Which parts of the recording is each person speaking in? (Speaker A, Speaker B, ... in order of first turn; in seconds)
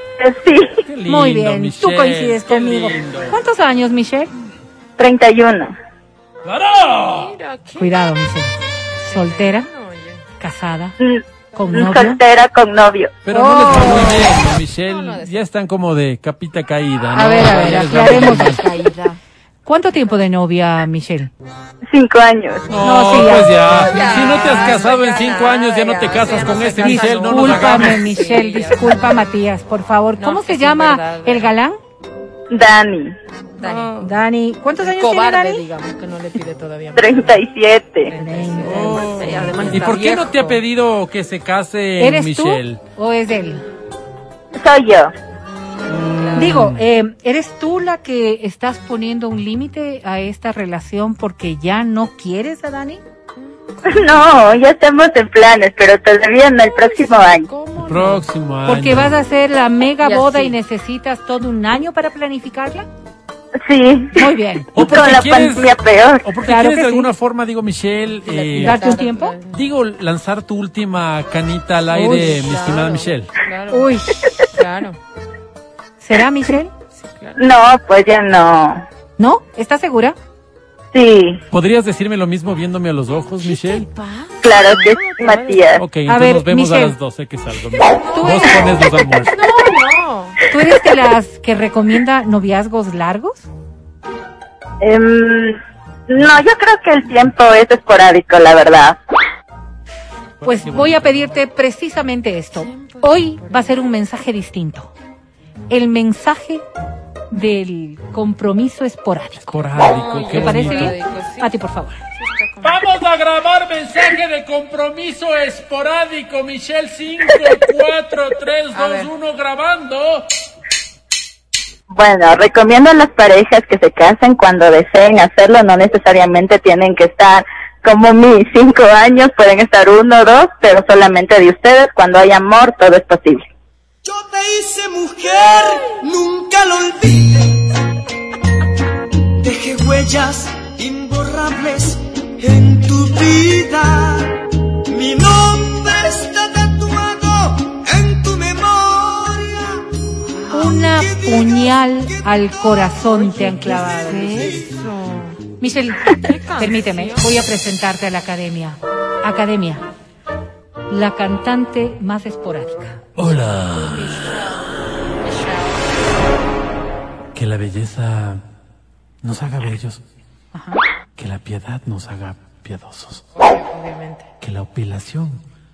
Speaker A: 0.2-0.8, 5.0-5.7, 11.7-13.1, 21.9-22.7, 32.5-33.2, 37.0-38.1, 44.6-45.1, 53.9-57.5, 63.6-66.3, 77.4-78.8, 80.9-81.4, 84.4-85.8, 94.8-95.5, 96.1-99.0, 121.9-133.4
Speaker B: 0.8-3.4, 6.4-7.3, 13.2-18.6, 22.7-28.1, 38.6-42.8, 45.9-46.8, 57.8-59.1, 64.7-68.9, 69.5-73.3, 81.5-83.9, 85.8-89.4, 100.4-101.3, 109.5-111.0, 112.6-120.2, 163.2-164.4, 167.3-168.4, 169.2-170.0, 171.2-173.2, 174.4-175.4
Speaker C: 1.1-4.3, 7.8-8.5, 9.1-9.7, 10.4-10.9, 11.6-12.2, 13.3-14.3, 17.1-18.6, 19.6-21.3, 22.8-23.5, 26.8-31.8, 33.6-35.6, 38.1-39.9, 42.0-43.6, 46.4-53.0, 58.6-62.9, 64.2-64.7, 66.5-67.1, 68.5-69.3, 71.9-72.4, 73.7-74.3, 76.0-76.7, 79.2-80.2, 86.1-87.0, 88.1-88.6, 90.5-93.5, 100.4-104.9, 105.7-106.6, 107.3-109.7, 110.3-112.0, 150.5-154.5, 155.6-159.8, 160.9-163.0, 170.5-170.8
Speaker D: 6.9-8.0, 9.0-10.2, 11.6-12.0, 14.3-15.4, 17.2-19.2, 23.6-29.2, 30.2-31.5, 33.6-34.1, 34.8-37.4, 38.0-40.6, 45.9-46.6, 53.7-54.0, 56.9-58.3, 60.0-60.6, 68.2-69.6, 72.1-75.0, 76.9-77.5, 83.5-85.7, 88.0-88.3, 89.2-90.4, 102.5-103.8, 109.9-111.6, 112.2-112.8, 118.7-119.1, 153.3-155.4, 156.2-157.4, 163.3-166.0, 173.4-174.3
Speaker E: 134.0-137.7, 139.4-150.0, 150.7-154.6